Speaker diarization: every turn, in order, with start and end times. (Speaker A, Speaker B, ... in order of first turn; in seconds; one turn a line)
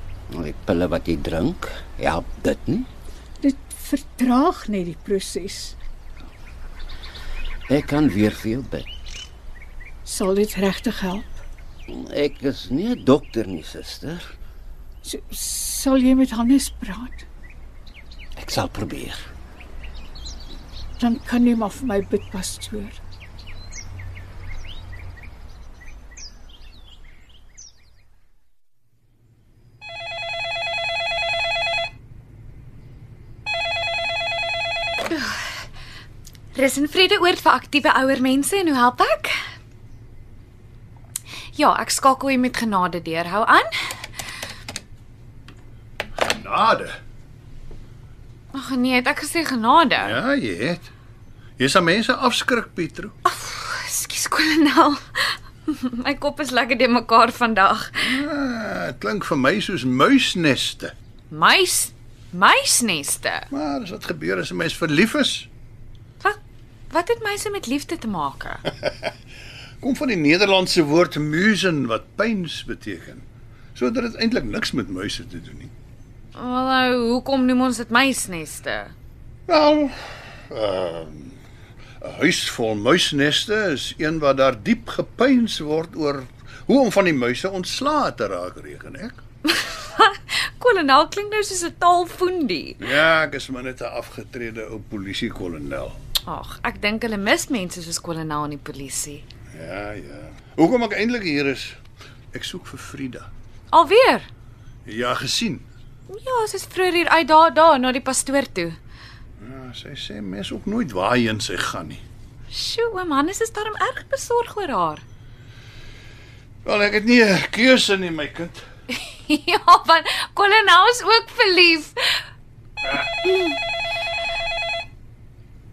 Speaker A: 0.3-2.9
Speaker B: 3.4-5.8
Speaker A: 7.7-8.9
Speaker B: 10.0-11.4
Speaker A: 11.9-14.3
Speaker B: 15.0-17.2
Speaker A: 18.4-19.2
Speaker B: 21.0-23.0
Speaker C: 35.1-35.4
Speaker C: 36.5-39.3
Speaker C: 41.5-43.7
Speaker D: 46.2-47.0
Speaker C: 48.5-50.2
Speaker D: 50.0-50.9
Speaker D: 51.6-53.1
Speaker C: 53.2-58.2
Speaker D: 58.0-60.9
Speaker C: 61.3-63.5
Speaker D: 63.5-65.5
Speaker C: 66.9-68.7
Speaker D: 69.8-73.2
Speaker D: 73.7-75.7
Speaker C: 76.3-78.9
Speaker D: 79.5-81.4
Speaker D: 82.0-89.2
Speaker C: 89.5-92.8
Speaker D: 92.8-96.0
Speaker C: 96.2-99.2
Speaker D: 99.5-101.8
Speaker D: 102.3-103.3
Speaker C: 103.7-104.3
Speaker D: 104.8-105.7
Speaker C: 106.1-108.8
Speaker D: 109.4-112.0
Speaker C: 112.5-115.0
Speaker D: 116.6-118.6
Speaker C: 119.0-122.2